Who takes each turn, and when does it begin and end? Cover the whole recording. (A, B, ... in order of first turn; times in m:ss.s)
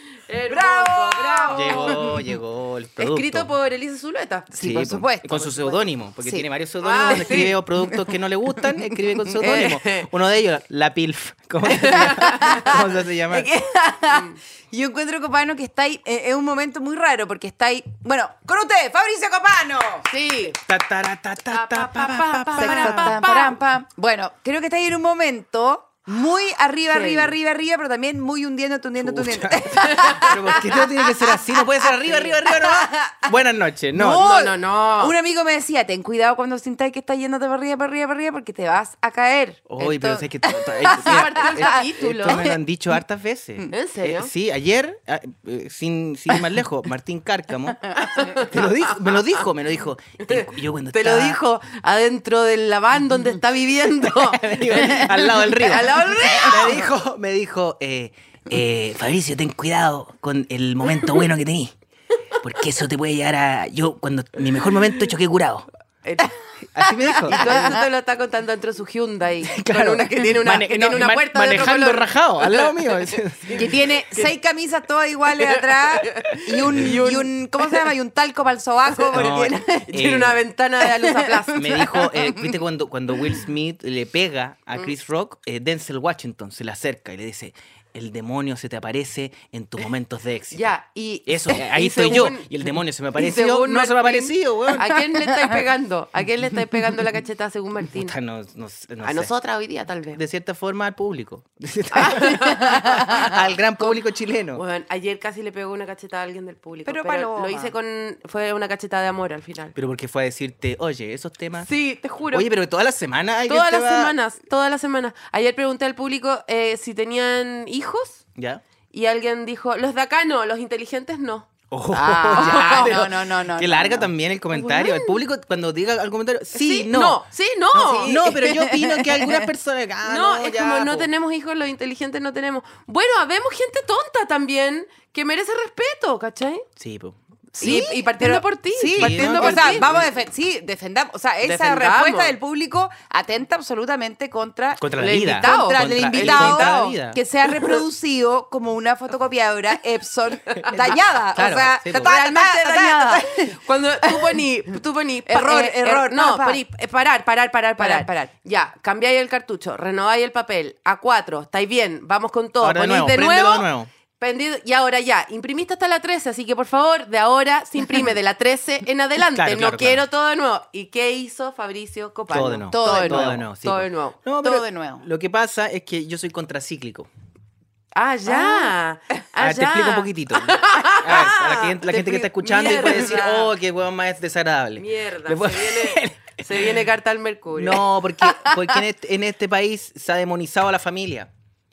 0:00.3-0:02.1 A
0:00.5-0:02.2 B
0:01.5-0:03.5 C
0:03.0-0:04.5 A
0:04.5-0:06.4 B
0:04.5-0:13.5 C
0:06.8-0:07.6 A
0:07.0-0:09.7 B
0:09.4-0:10.1 A
0:11.7-0:12.6 A
0:12.0-0:20.0 B
0:14.1-0:14.4 A
0:20.1-0:20.6 A
0:20.6-0:23.2 C
0:21.5-0:23.6 A
0:22.6-0:33.4 B
0:26.9-0:27.3 A
0:29.0-0:34.3 C
0:33.9-0:42.6 B
0:34.0-0:35.1 A
0:39.7-0:51.4 C
0:40.9-0:42.5 A
0:43.7-0:44.3 A
0:48.0-0:49.4 A
0:50.2-0:56.8 A
0:54.0-1:01.7 C
0:56.1-0:56.8 B
1:02.4-1:05.6 C
1:06.0-1:06.3 A
1:06.7-1:07.8 C
1:07.0-1:07.8 B
1:07.2-1:12.7 A
1:09.4-1:13.7 C
1:13.4-1:14.3 A
1:13.5-1:19.9 B
1:15.4-1:17.3 A
1:19.1-1:20.4 C
1:19.9-1:21.9 A
1:20.8-1:22.6 B
1:21.5-1:30.6 C
1:30.5-1:32.5 A
1:31.3-1:34.9 C
1:33.2-1:38.1 A
1:37.9-1:39.3 C
1:39.0-1:40.2 A
1:40.2-1:44.6 C
1:41.9-1:44.0 A
1:44.5-1:49.7 A
1:46.8-1:47.7 B
1:49.7-1:51.7 C
1:51.6-1:52.5 A
1:52.3-1:54.1 C
1:53.5-1:58.2 A
1:58.4-1:58.6 C
1:58.9-2:01.5 A
2:01.7-2:11.1 C
2:01.9-2:05.0 B
2:02.3-2:03.1 A
2:06.5-2:08.3 A
2:07.9-2:09.4 B
2:10.0-2:16.6 A
2:16.8-2:17.8 C
2:17.6-2:34.2 B
2:17.6-2:20.0 A
2:18.9-2:20.1 C
2:21.4-2:22.3 A
2:24.8-2:27.2 C
2:25.0-2:26.7 A
2:30.5-2:30.9 A
2:31.3-2:32.1 C
2:31.9-2:54.2 A
2:35.3-2:36.6 B
2:37.8-2:38.2 B
2:42.6-2:43.9 C
2:49.3-2:50.0 C
2:52.3-2:57.1 C
2:52.7-2:53.4 B
2:54.4-2:55.0 B
2:57.9-3:03.5 A
2:58.3-2:58.7 B
2:59.4-3:06.8 C
3:01.9-3:03.4 B
3:04.8-3:07.8 A
3:07.6-3:11.3 C